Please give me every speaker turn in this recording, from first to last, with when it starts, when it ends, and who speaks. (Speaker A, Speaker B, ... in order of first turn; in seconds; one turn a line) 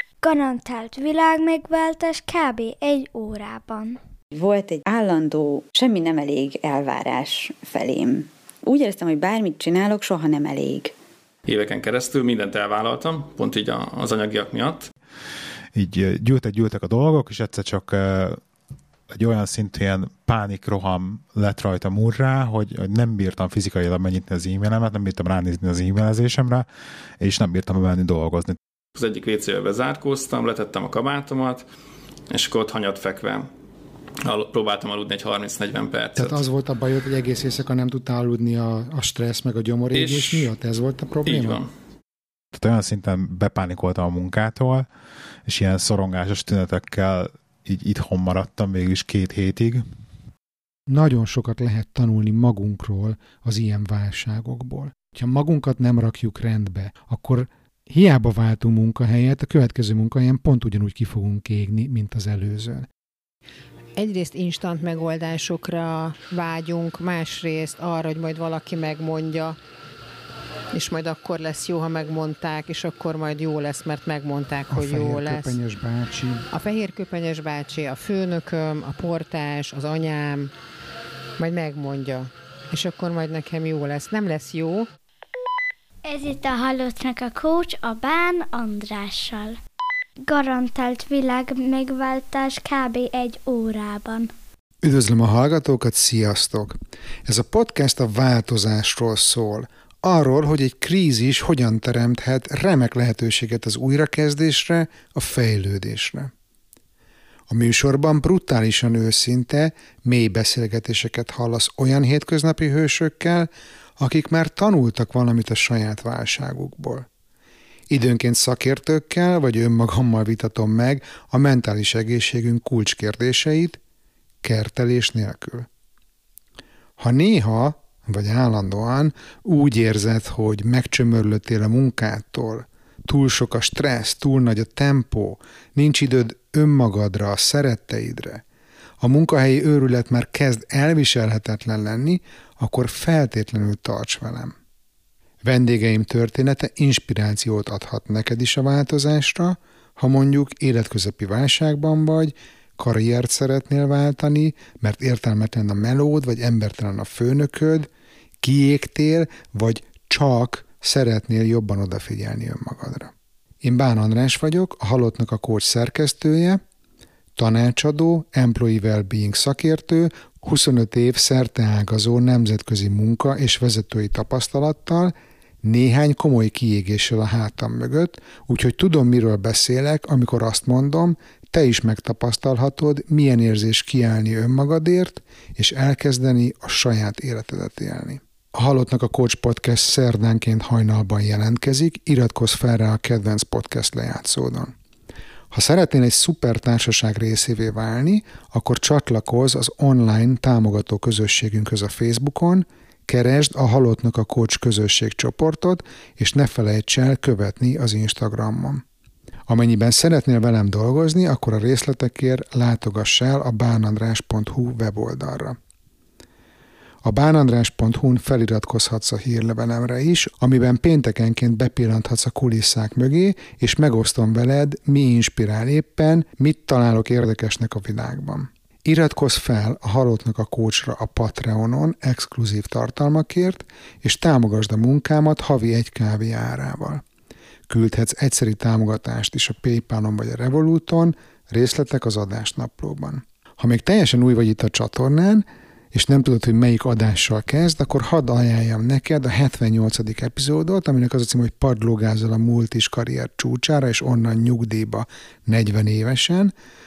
Speaker A: 0.2-4.0
Speaker B: 4.3-10.9
Speaker C: 11.5-14.9
Speaker D: 15.8-18.4
Speaker D: 19.1-26.7
Speaker D: 27.2-28.6
Speaker C: 28.9-31.6
Speaker C: 32.3-33.5
Speaker C: 34.2-36.4
Speaker E: 36.2-41.6
Speaker C: 39.9-40.5
Speaker C: 41.3-41.7
Speaker D: 42.5-44.9
Speaker D: 45.5-49.8
Speaker E: 50.9-62.9
Speaker F: 64.0-69.6
Speaker F: 70.7-75.6
Speaker E: 74.7-76.5
Speaker F: 76.5-80.5
Speaker F: 81.4-84.9
Speaker A: 86.1-89.6
Speaker A: 90.3-94.3
Speaker E: 94.8-106.3
Speaker E: 107.5-117.1
Speaker E: 117.9-123.8
Speaker E: 124.4-125.7
Speaker E: 127.0-138.4
Speaker E: 139.0-144.5
Speaker E: 145.4-166.6
Speaker E: 167.4-194.7
Speaker E: 195.5-208.8
Speaker E: 209.5-215.6
Speaker E: 217.0-237.0
Speaker E: 237.7-256.5